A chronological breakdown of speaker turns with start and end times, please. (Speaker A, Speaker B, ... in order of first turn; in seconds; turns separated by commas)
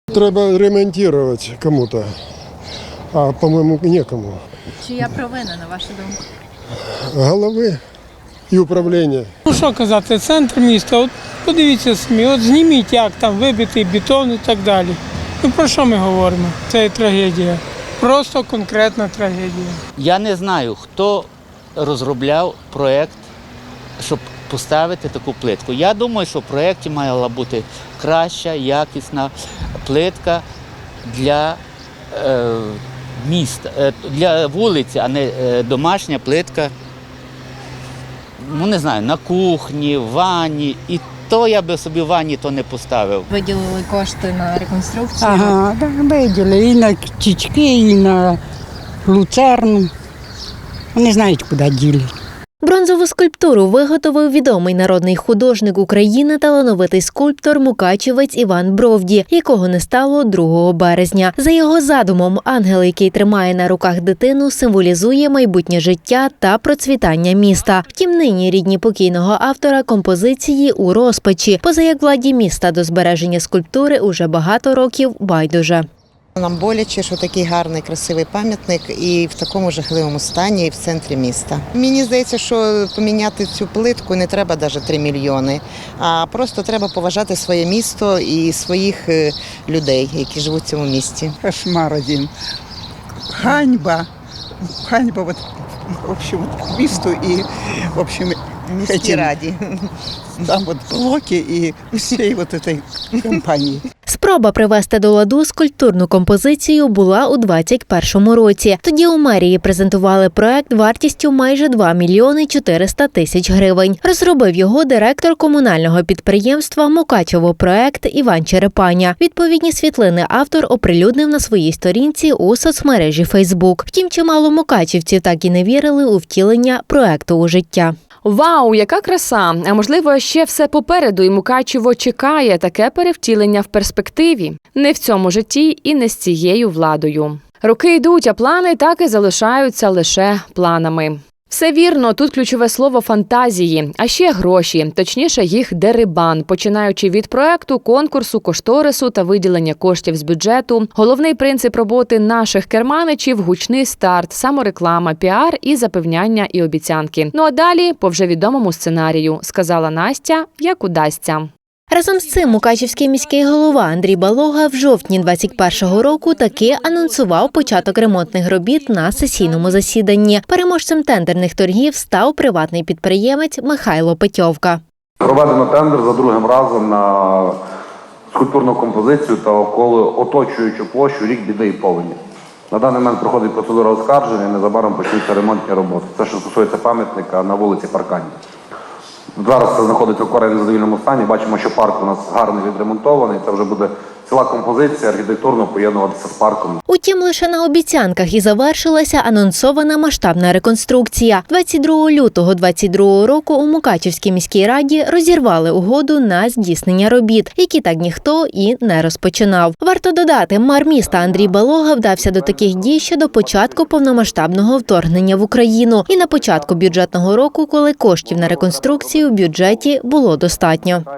Speaker A: 0.1-2.2, Speaker A: 3.1-4.4, Speaker B: 5.0-6.2, Speaker A: 6.9-7.8, Speaker A: 8.5-9.3, Speaker C: 9.5-19.8, Speaker D: 20.0-23.2, Speaker D: 24.0-29.3, Speaker D: 29.8-30.4, Speaker D: 31.1-31.6, Speaker D: 32.1-36.7, Speaker D: 38.4-43.3, Speaker B: 43.3-45.5, Speaker E: 45.2-48.4, Speaker E: 49.0-49.9, Speaker E: 50.9-52.1, Speaker F: 52.6-75.8, Speaker G: 76.4-91.4, Speaker H: 91.4-92.3, Speaker H: 93.4-94.1, Speaker H: 94.8-99.5, Speaker G: 98.7-99.6, Speaker H: 100.4-103.8, Speaker F: 104.1-128.0, Speaker I: 128.2-161.5, Speaker F: 161.9-174.8, Speaker J: 175.2-177.6, Speaker J: 178.3-182.2, Speaker J: 182.7-188.4, Speaker J: 189.4-196.8, Speaker F: 196.9-221.1, Speaker J: 211.1-215.5, Speaker J: 216.1-216.9, Speaker J: 218.3-221.0